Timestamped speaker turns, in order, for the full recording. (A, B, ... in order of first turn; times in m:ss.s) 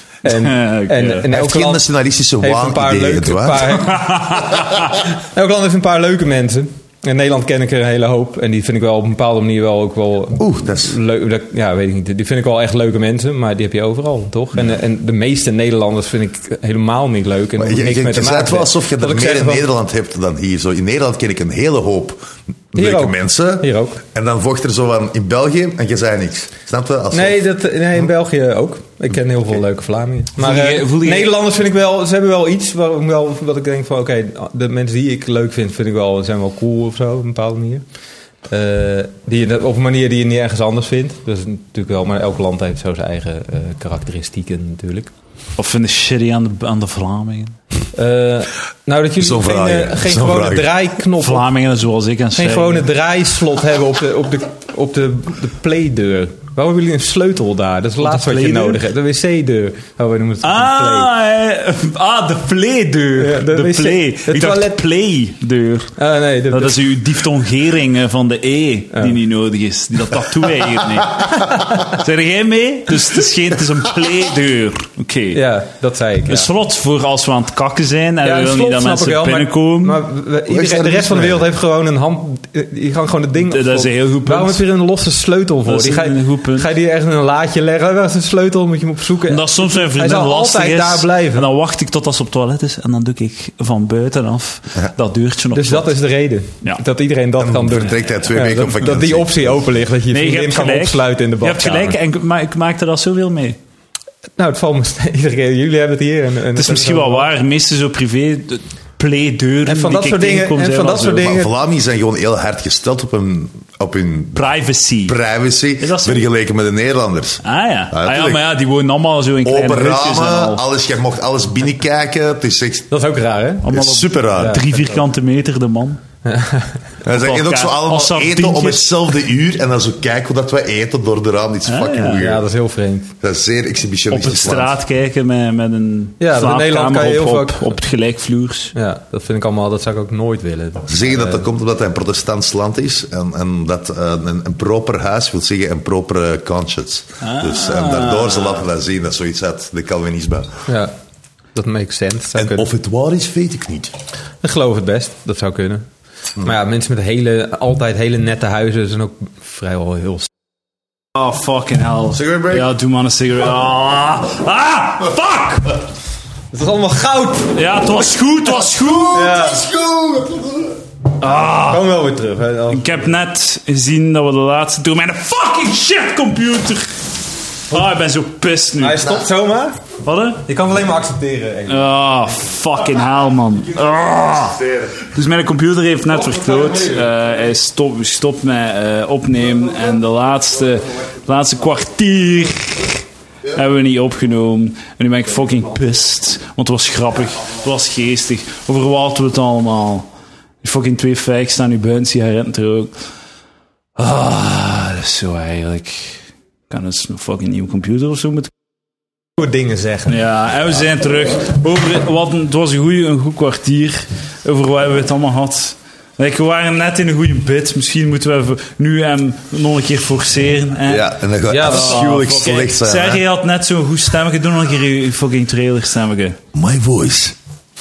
0:00.2-0:01.8 A
0:00.2-0:01.3 B
0:01.3-0:03.8 C
0:02.4-0:04.6 A
0:03.9-0:04.8 B
0:05.2-0:19.7 A
0:10.4-0:11.0 C
0:17.6-0:27.4 C
0:22.8-0:24.0 A
0:27.1-0:37.8 A
0:30.4-0:31.3 B
0:38.5-0:45.1 A
0:45.6-0:47.6 B
0:47.9-0:51.5 A
0:49.2-0:50.7 C
0:51.2-0:52.9 B
0:52.4-1:01.1 A
0:58.0-0:58.8 B
1:00.4-1:05.9 B
1:03.2-1:04.8 A
1:06.0-1:06.9 A
1:06.5-1:15.4 B
1:15.3-1:16.5 A
1:16.3-1:20.0 B
1:18.2-1:31.4 A
1:20.5-1:21.5 C
1:23.4-1:24.6 B
1:25.7-1:26.7 B
1:29.3-1:35.9 B
1:35.5-1:42.0 A
1:37.4-1:39.6 C
1:40.1-1:43.6 B
1:44.4-1:47.3 A
1:46.6-1:51.3 B
1:49.7-1:51.5 A
1:51.2-1:58.4 C
1:54.4-1:55.2 B
1:55.8-1:56.3 B
1:57.4-2:00.6 B
1:59.4-2:02.9 C
2:02.9-2:03.7 A
2:03.6-2:06.0 B
2:03.7-2:04.6 C
2:04.4-2:04.6 A
2:06.3-2:06.8 A
2:07.0-2:12.5 C
2:07.1-2:09.1 B
2:11.7-2:12.2 B
2:12.2-2:13.1 A
2:13.2-2:14.7 C
2:14.1-2:18.7 B
2:16.2-2:17.7 A
2:18.7-2:21.4 A
2:20.9-2:30.5 C
2:27.2-2:28.6 B
2:30.7-2:30.9 A
2:31.6-2:32.6 A
2:32.4-2:33.9 C
2:34.4-2:35.8 A
2:36.4-2:40.3 A
2:41.2-2:45.8 B
2:42.1-2:42.7 C
2:46.5-2:47.6 A
2:47.5-2:49.2 B
2:48.7-2:50.8 C
2:49.1-2:49.6 A
2:51.2-2:51.9 B
2:51.3-2:53.0 A
2:52.7-2:57.0 B
2:57.7-2:59.2 B
2:58.8-2:59.8 A
3:00.0-3:00.4 B
3:00.5-3:01.9 A
3:01.7-3:13.0 B
3:06.1-3:07.1 A
3:13.5-3:20.1 B
3:20.6-3:22.9 B
3:24.0-3:28.5 B
3:29.4-3:30.1 A
3:30.1-3:46.4 B
3:40.9-3:43.2 C
3:41.5-3:42.2 A
3:46.5-3:47.4 C